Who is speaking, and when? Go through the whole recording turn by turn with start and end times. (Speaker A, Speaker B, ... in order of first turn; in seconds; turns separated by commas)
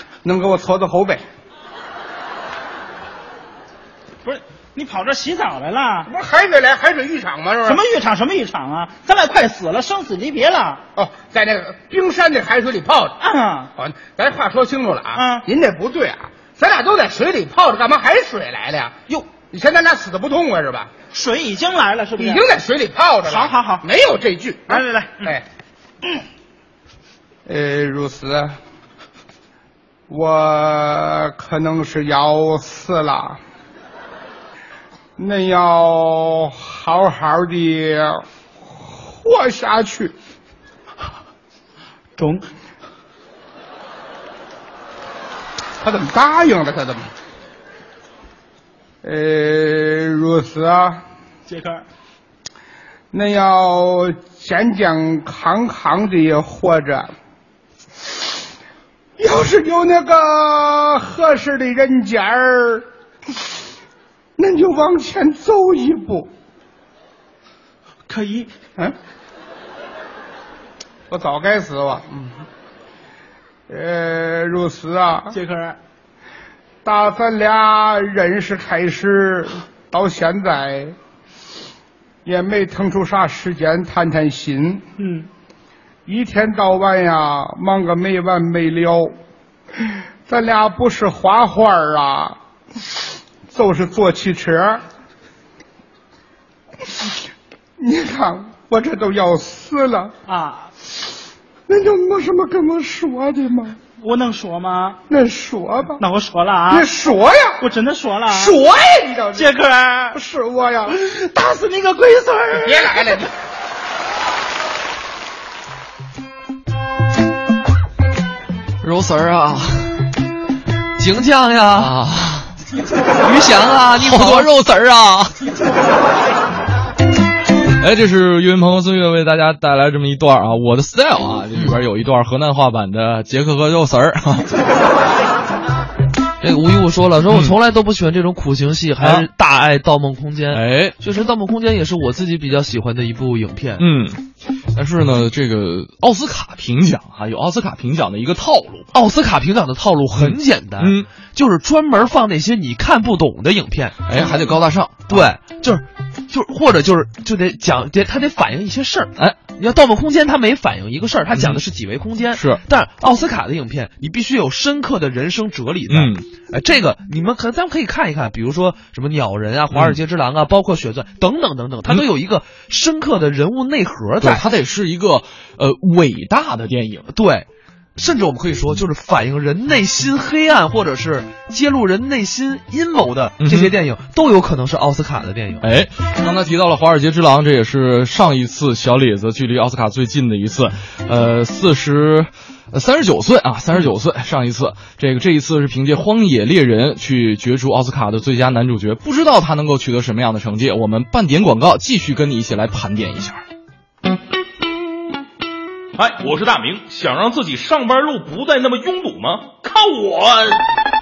Speaker A: 0.2-1.2, Speaker B: 4.2-6.1, Speaker A: 6.1-7.8, Speaker B: 7.7-10.8, Speaker A: 11.0-13.2, Speaker B: 13.2-13.7, Speaker A: 13.8-20.9, Speaker B: 15.2-15.4, Speaker B: 21.1-22.4, Speaker A: 22.2-25.4, Speaker B: 23.3-23.9, Speaker B: 24.7-25.4, Speaker A: 27.5-28.6, Speaker A: 30.1-33.4, Speaker A: 35.2-40.1, Speaker B: 42.2-42.5, Speaker A: 45.8-47.1, Speaker A: 49.0-51.0, Speaker B: 51.5-51.8, Speaker A: 53.1-57.1, Speaker A: 59.2-62.9, Speaker A: 64.4-66.3, Speaker B: 68.1-68.5, Speaker A: 71.1-72.4, Speaker A: 73.7-75.4, Speaker B: 75.3-75.8, Speaker A: 76.8-81.0, Speaker A: 82.2-84.8, Speaker B: 85.0-85.3, Speaker A: 86.1-89.2, Speaker A: 89.8-92.4, Speaker A: 93.5-94.8, Speaker A: 97.8-100.1, Speaker B: 100.3-100.7, Speaker A: 101.7-103.8, Speaker B: 104.0-105.0, Speaker A: 105.1-106.0, Speaker B: 106.0-106.9, Speaker A: 106.7-107.6, Speaker B: 107.6-108.6, Speaker A: 108.3-109.5, Speaker B: 109.3-110.2, Speaker A: 110.1-111.0, Speaker B: 110.9-113.2, Speaker A: 112.5-113.3, Speaker C: 118.8-120.0, Speaker D: 121.0-121.9, Speaker C: 121.8-122.5, Speaker D: 123.2-124.5, Speaker C: 124.0-125.4, Speaker C: 127.8-134.5, Speaker D: 136.4-143.8, Speaker C: 137.3-137.6, Speaker C: 139.0-139.3, Speaker C: 140.5-141.0, Speaker C: 143.8-148.9, Speaker D: 148.9-154.0, Speaker C: 150.2-151.1, Speaker C: 154.1-155.3, Speaker D: 155.1-174.4, Speaker C: 162.3-162.6, Speaker C: 165.9-166.2, Speaker C: 169.7-170.0, Speaker C: 174.2-177.1, Speaker D: 177.1-185.7, Speaker C: 183.4-183.7, Speaker C: 185.6-203.4, Speaker E: 206.0-210.6